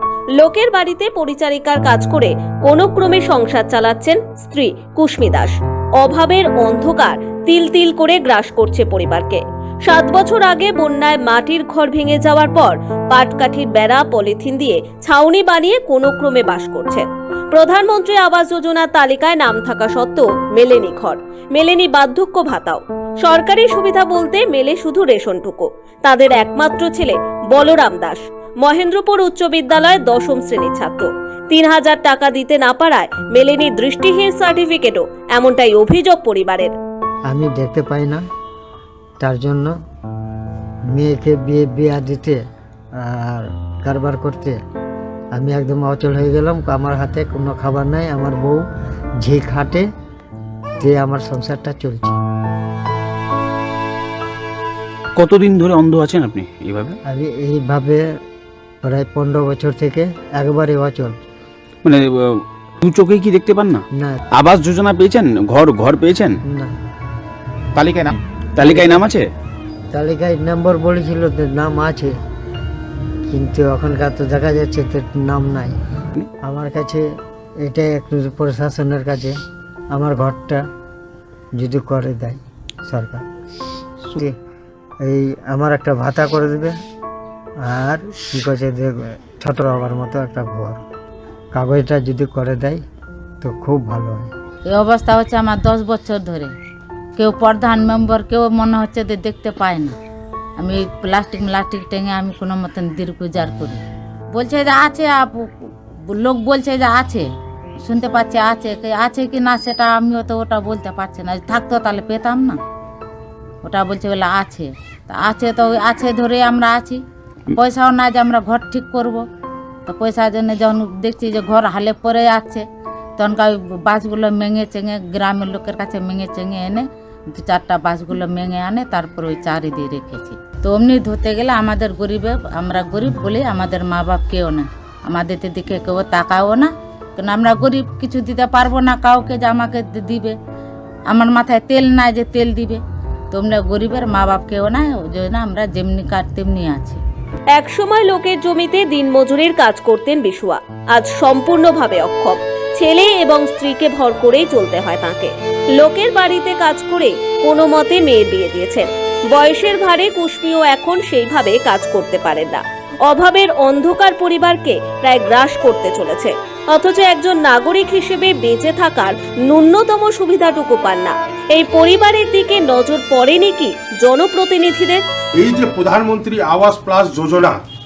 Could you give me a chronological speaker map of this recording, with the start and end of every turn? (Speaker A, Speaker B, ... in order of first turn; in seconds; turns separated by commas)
Speaker A: 0.4-36.7, Speaker B: 37.3-38.2, Speaker B: 39.2-39.7, Speaker B: 40.9-42.4, Speaker B: 43.0-44.6, Speaker B: 45.3-48.6, Speaker B: 49.2-49.9, Speaker B: 50.8-52.2, Speaker C: 55.1-57.0, Speaker B: 57.0-58.0, Speaker B: 58.8-61.2, Speaker C: 61.8-66.4, Speaker B: 63.9-64.2, Speaker C: 67.8-69.3, Speaker B: 68.6-69.1, Speaker B: 69.9-72.1, Speaker B: 73.3-75.8, Speaker B: 76.4-77.0, Speaker B: 77.6-79.3, Speaker B: 79.9-80.6, Speaker B: 81.6-83.2, Speaker B: 85.0-86.7, Speaker B: 87.7-90.8, Speaker B: 91.5-92.8, Speaker B: 93.4-94.3, Speaker D: 94.7-96.5, Speaker D: 97.2-100.0, Speaker D: 100.6-103.8, Speaker D: 104.3-107.3, Speaker D: 107.8-112.6, Speaker D: 113.6-117.0, Speaker D: 117.5-119.2, Speaker D: 119.9-122.7, Speaker D: 123.2-140.4, Speaker D: 141.1-147.0, Speaker A: 147.6-175.0, Speaker E: 175.4-177.6